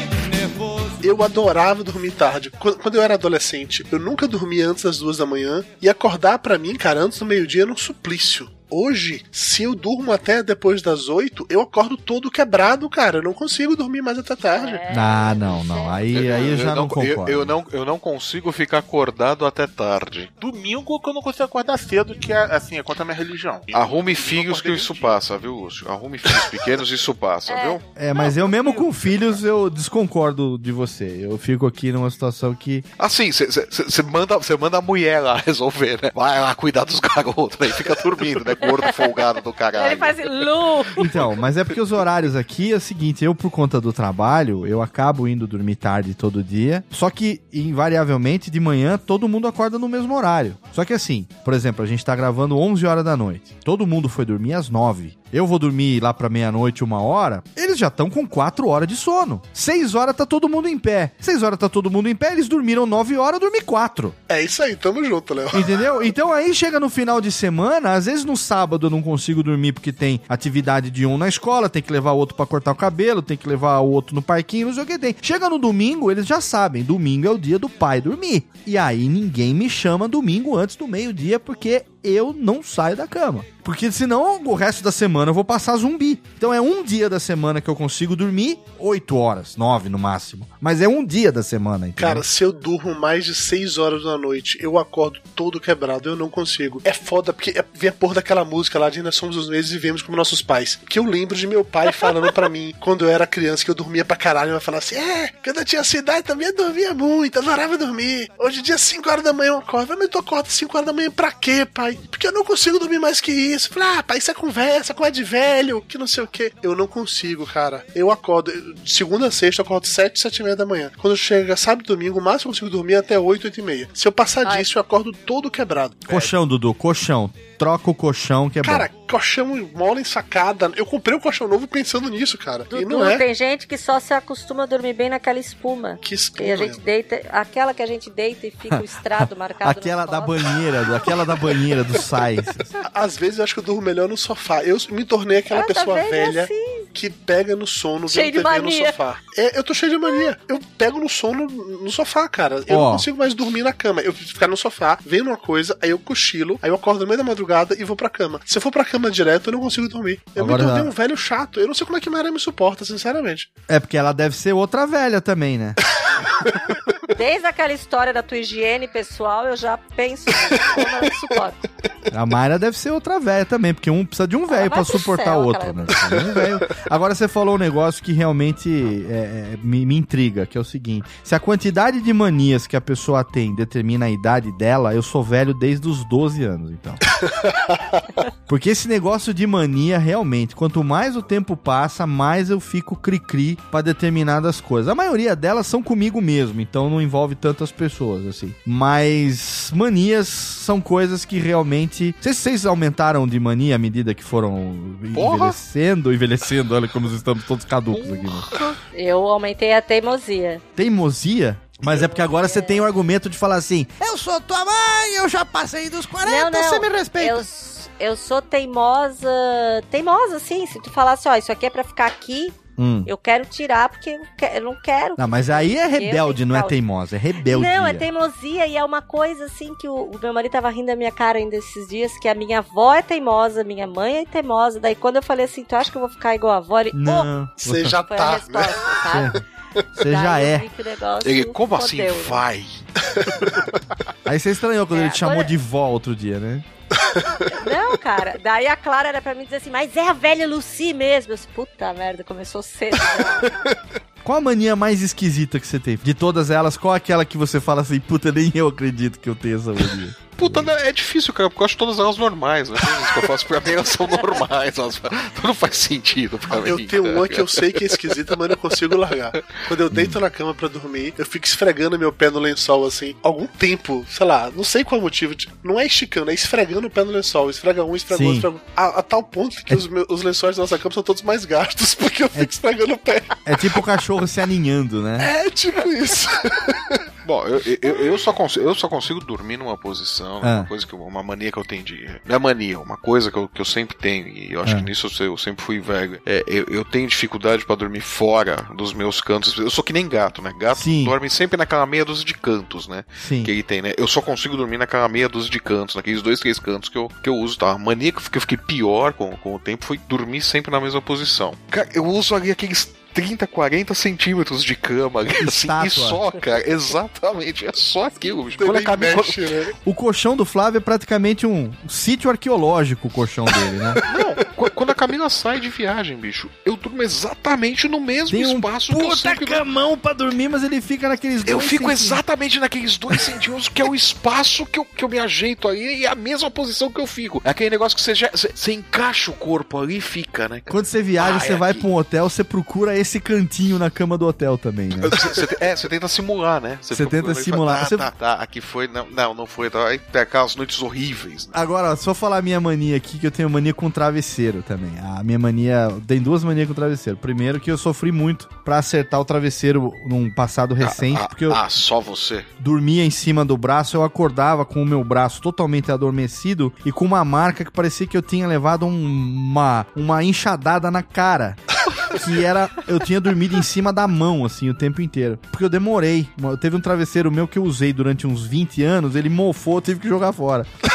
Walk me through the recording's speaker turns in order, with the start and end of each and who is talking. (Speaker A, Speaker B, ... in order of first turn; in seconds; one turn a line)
Speaker A: 1.0-14.8
Speaker B: 14.5-16.5
Speaker C: 14.9-17.6
Speaker D: 16.1-20.3
Speaker E: 20.4-25.2
Speaker D: 23.7-27.9
Speaker B: 27.5-27.8
Speaker C: 27.9-32.9
Speaker D: 33.0-40.5
Speaker B: 39.7-41.0
Speaker C: 41.0-64.2
Speaker A: 64.3-65.8
Speaker C: 65.5-92.2
Speaker A: 92.0-126.3
Speaker C: 126.1-128.9
Speaker A: 128.6-133.2
Speaker B: 132.7-140.5
Speaker A: 136.0-136.8
Speaker C: 138.7-142.6
Speaker A: 142.8-163.5
Speaker B: 145.5-146.9
Speaker B: 148.1-148.9
Speaker C: 152.7-153.1
Speaker C: 160.4-160.9
Speaker C: 163.7-165.8
Speaker B: 167.1-171.6
Speaker C: 172.1-187.0
Speaker B: 174.5-175.9
Speaker A: 187.2-188.1
Speaker C: 188.5-208.5
Speaker D: 205.1-205.6
Speaker D: 207.9-208.7
Speaker B: 208.9-210.6
Speaker C: 210.8-217.4
Speaker B: 211.8-212.8
Speaker B: 216.2-226.8
Speaker C: 222.8-223.1
Speaker C: 225.2-228.1
Speaker B: 227.4-237.3
Speaker C: 236.9-238.0
Speaker A: 237.6-238.8
Speaker B: 238.1-239.4
Speaker C: 239.1-239.4
Speaker C: 239.9-240.7
Speaker B: 240.0-242.4
Speaker D: 241.2-242.8
Speaker C: 244.2-246.7
Speaker B: 244.9-245.5
Speaker A: 247.2-247.4
Speaker B: 247.5-253.6
Speaker A: 253.4-253.7
Speaker C: 254.2-260.7
Speaker D: 260.4-268.0
Speaker A: 266.5-283.8
Speaker D: 269.3-269.6
Speaker C: 269.9-270.2
Speaker C: 278.1-278.5
Speaker C: 283.4-285.3
Speaker A: 285.2-287.1
Speaker D: 287.2-319.4
Speaker C: 290.4-290.7
Speaker C: 300.7-301.1
Speaker C: 303.2-303.5
Speaker C: 315.4-316.2
Speaker A: 318.6-319.7
Speaker C: 319.8-324.0
Speaker D: 324.0-329.7
Speaker C: 328.3-332.2
Speaker D: 331.4-341.9
Speaker C: 340.7-345.1
Speaker D: 345.0-351.6
Speaker C: 346.9-348.1
Speaker C: 351.5-361.6
Speaker D: 360.8-362.5
Speaker C: 362.6-371.6
Speaker C: 372.1-380.7